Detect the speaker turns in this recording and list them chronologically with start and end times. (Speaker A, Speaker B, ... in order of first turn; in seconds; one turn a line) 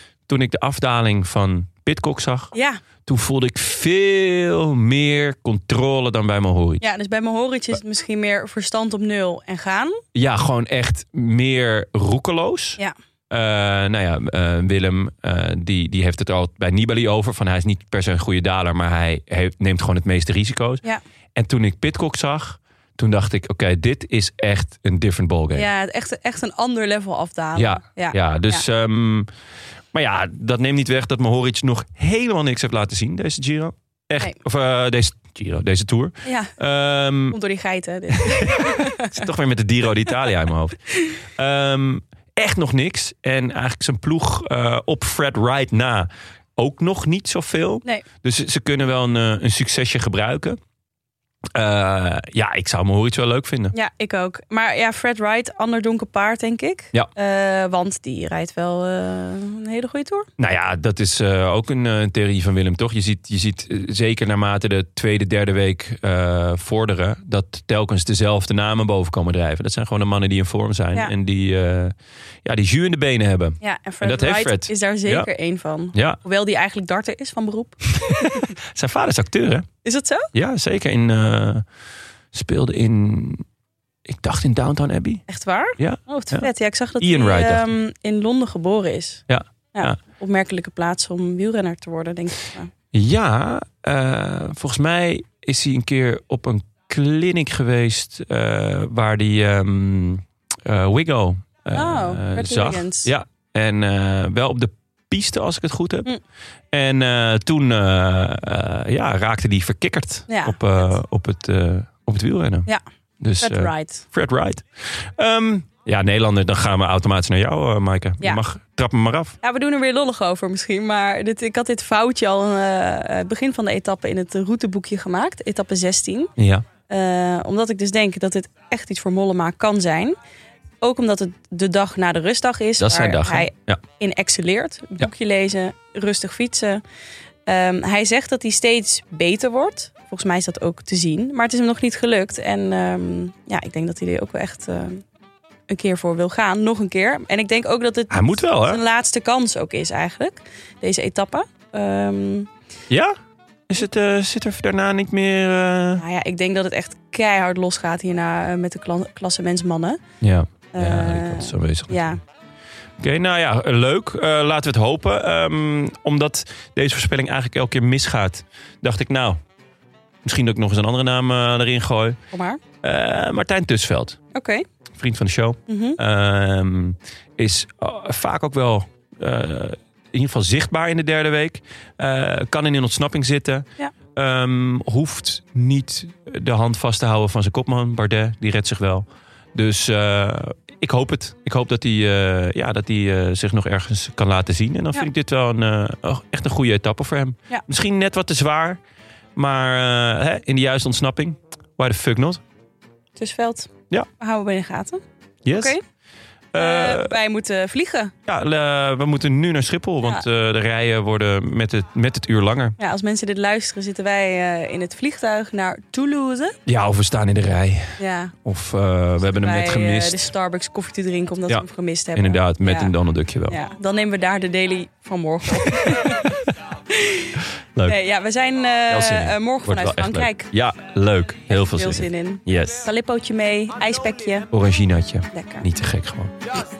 Speaker A: 0.3-2.5
Speaker B: 2.5-2.8
Speaker A: 3.0-6.8
Speaker B: 6.8-10.0
Speaker A: 10.1-20.8
Speaker A: 21.4-25.7
Speaker B: 25.5-28.6
Speaker A: 27.6-29.3
Speaker A: 29.9-37.4
Speaker B: 36.2-36.5
Speaker B: 37.2-39.1
Speaker A: 38.1-50.6
Speaker A: 51.5-53.7
Speaker B: 53.7-60.3
Speaker A: 60.4-71.9
Speaker A: 72.4-75.3
Speaker B: 73.6-78.5
Speaker A: 78.1-79.7
Speaker B: 79.8-80.3
Speaker A: 80.3-81.6
Speaker A: 82.3-83.4
Speaker A: 84.1-85.2
Speaker B: 85.3-89.2
Speaker A: 85.8-86.5
Speaker A: 87.0-87.7
Speaker A: 89.3-90.0
Speaker B: 89.7-92.7
Speaker A: 92.9-106.1
Speaker B: 101.7-103.1
Speaker A: 106.7-112.7
Speaker B: 110.3-110.6
Speaker A: 113.2-119.3
Speaker B: 113.4-114.0
Speaker B: 119.4-126.3
Speaker A: 126.4-126.6
Speaker B: 126.9-130.2
Speaker B: 130.8-136.8
Speaker A: 132.8-133.8
Speaker B: 137.4-145.0
Speaker B: 145.7-152.5
Speaker A: 148.1-148.8
Speaker A: 152.9-153.1
Speaker A: 153.7-156.0
Speaker B: 155.9-160.0
Speaker A: 160.2-162.2
Speaker B: 160.7-162.2
Speaker A: 163.0-169.4
Speaker A: 170.2-172.2
Speaker B: 172.3-172.6
Speaker A: 172.8-174.2
Speaker B: 174.3-174.7
Speaker A: 175.0-198.8
Speaker B: 175.7-176.0
Speaker A: 199.3-202.4
Speaker B: 203.2-205.8
Speaker A: 205.4-205.7
Speaker A: 206.5-207.1
Speaker B: 206.6-208.1
Speaker A: 208.2-212.8
Speaker B: 212.8-216.6
Speaker A: 216.7-220.2
Speaker B: 218.0-218.3
Speaker B: 219.3-222.9
Speaker A: 221.5-223.6
Speaker B: 223.5-230.5
Speaker A: 228.9-232.9
Speaker B: 231.5-234.5
Speaker A: 234.5-236.6
Speaker B: 235.3-235.7